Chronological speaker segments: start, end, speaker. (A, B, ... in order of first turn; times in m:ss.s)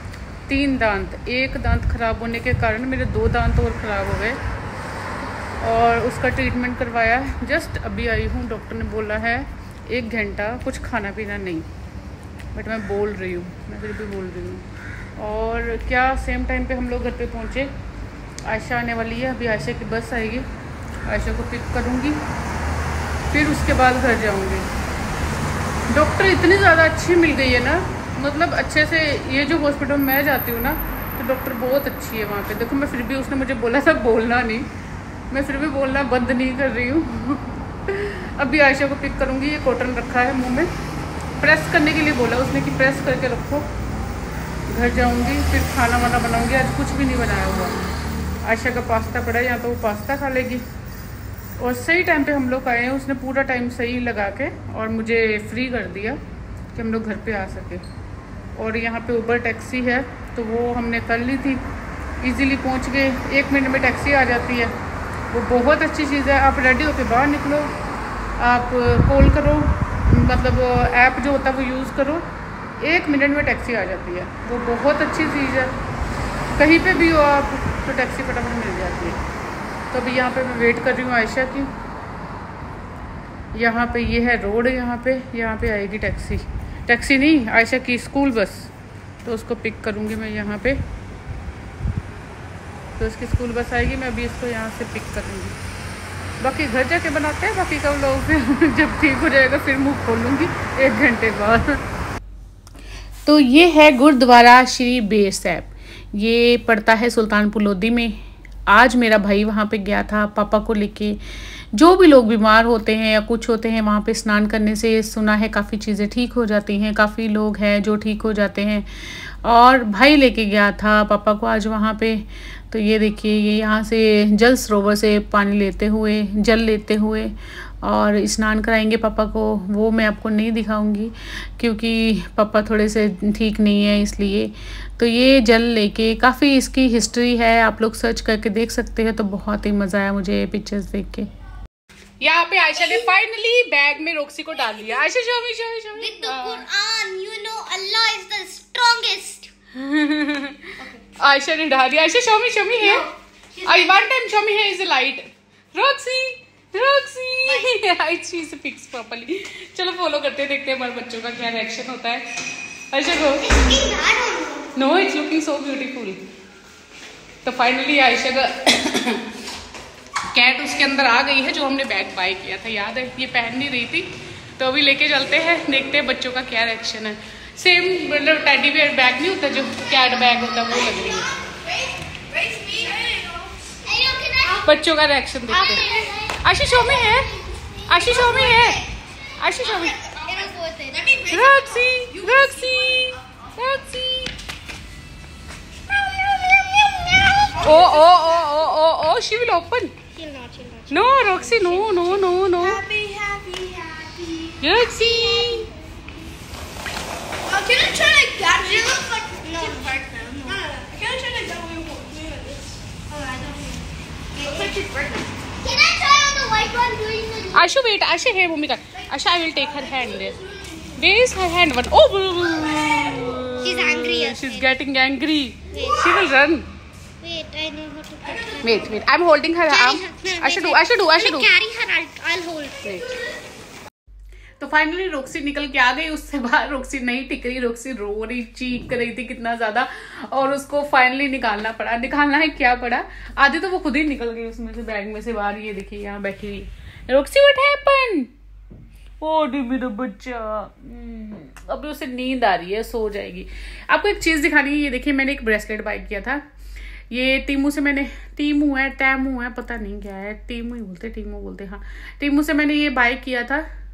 0:00.5-0:04.4 A
0:05.6-0:11.7 A
0:12.5-0:17.7 A
0:18.4-0:20.5 A
0:21.0-0:22.2 A
0:23.3-0:24.7 A
0:25.9-0:34.7 A
0:35.3-0:40.7 A
0:41.4-0:43.7 A
0:44.7-0:47.8 A
0:48.4-0:50.6 A
0:51.6-0:56.2 A
0:56.7-0:57.8 A
0:58.6-1:01.7 A
1:02.2-1:04.7 A
1:05.3-1:07.8 A
1:08.4-1:12.3 A
1:12.8-1:15.7 A
1:16.6-1:19.2 A
1:19.9-1:21.7 A
1:23.5-1:28.7 A
1:29.2-1:30.8 A
1:33.0-1:35.6 A
1:36.4-1:41.8 A
1:43.2-1:51.2 A
1:51.7-2:21.3 A
2:22.2-2:26.7 A
2:26.0-2:29.5 B
2:29.8-2:33.1 A
2:33.6-2:34.0 B
2:33.6-2:43.8 A
2:37.4-2:37.7 B
2:43.4-2:44.7 B
2:44.8-2:46.2 A
2:47.4-2:49.4 A
2:50.3-3:01.3 A
3:02.4-3:03.3 C
3:02.6-3:03.1 B
3:03.8-3:04.7 B
3:04.6-3:07.3 A
3:05.5-3:08.9 B
3:07.9-3:08.8 A
3:09.4-3:10.0 A
3:09.6-3:11.6 B
3:11.3-3:14.3 A
3:12.0-3:12.8 C
3:16.0-3:18.7 B
3:17.6-3:20.0 A
3:20.1-3:22.4 B
3:20.9-3:22.9 A
3:22.8-3:24.6 C
3:24.6-3:25.7 A
3:24.7-3:25.8 B
3:27.5-3:30.8 B
3:27.6-3:28.8 C
3:30.7-3:32.5 C
3:34.4-3:34.8 B
3:34.7-3:35.3 C
3:35.6-3:37.6 B
3:37.5-3:40.4 A
3:40.9-3:46.7 A
3:43.6-3:44.7 B
3:45.7-3:46.1 B
3:47.2-3:49.0 B
3:48.6-3:51.5 A
3:49.7-3:53.3 B
3:54.6-4:08.3 A
4:09.2-4:16.4 A
4:17.1-4:23.7 A